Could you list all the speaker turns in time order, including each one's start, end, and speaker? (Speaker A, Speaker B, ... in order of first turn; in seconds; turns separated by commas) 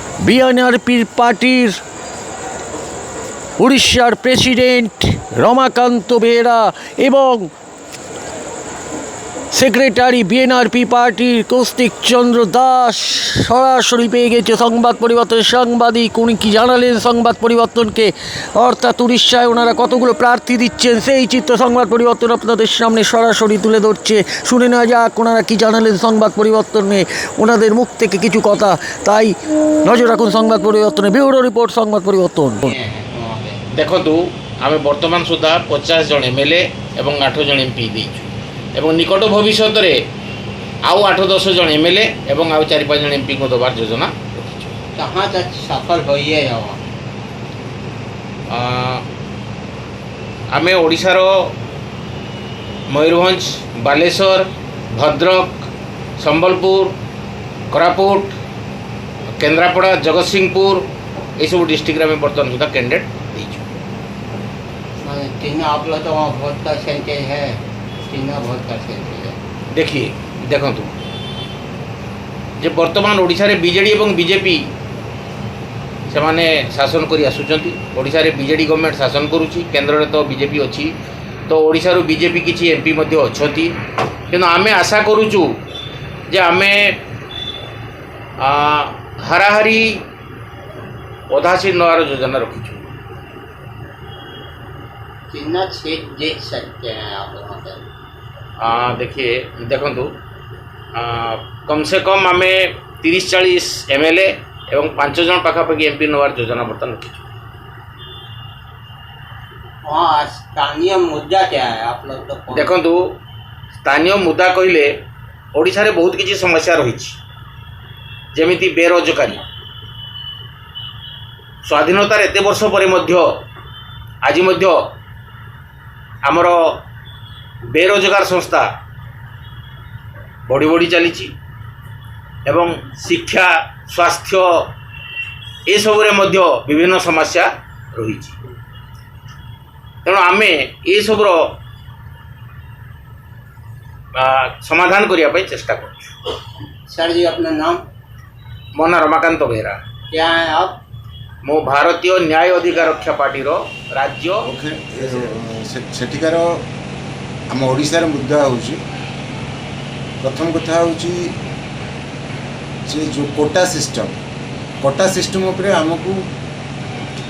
Speaker A: 0.2-1.8, Speaker A: 3.6-7.5, Speaker A: 9.5-29.3, Speaker A: 29.8-32.6, Speaker B: 32.6-33.6, Speaker C: 33.8-40.0, Speaker C: 40.8-44.7, Speaker B: 45.0-46.8, Speaker C: 48.5-49.0, Speaker C: 50.5-51.3, Speaker C: 52.9-55.6, Speaker C: 56.2-56.9, Speaker C: 57.7-58.3, Speaker C: 59.3-60.9, Speaker C: 61.4-63.6, Speaker B: 65.0-69.3, Speaker C: 69.7-70.9, Speaker C: 72.6-74.7, Speaker C: 76.1-80.9, Speaker C: 81.5-83.7, Speaker C: 84.3-85.5, Speaker C: 86.3-87.0, Speaker C: 88.4-90.0, Speaker C: 91.3-92.9, Speaker B: 95.3-97.8, Speaker C: 98.6-100.1, Speaker C: 100.9-107.2, Speaker B: 109.8-112.8, Speaker C: 112.5-113.0, Speaker C: 113.8-114.9, Speaker C: 115.5-117.2, Speaker C: 118.3-119.4, Speaker C: 121.7-123.2, Speaker C: 124.2-124.8, Speaker C: 126.2-126.6, Speaker C: 127.7-128.7, Speaker C: 130.5-131.3, Speaker C: 132.4-134.5, Speaker C: 135.7-138.4, Speaker C: 140.0-141.5, Speaker C: 144.2-146.1, Speaker B: 146.9-147.8, Speaker C: 148.7-149.8, Speaker B: 150.1-150.8, Speaker C: 151.4-154.4, Speaker D: 154.4-156.6, Speaker D: 157.5-158.8, Speaker D: 160.2-161.3, Speaker D: 162.9-164.2, Speaker D: 164.8-166.3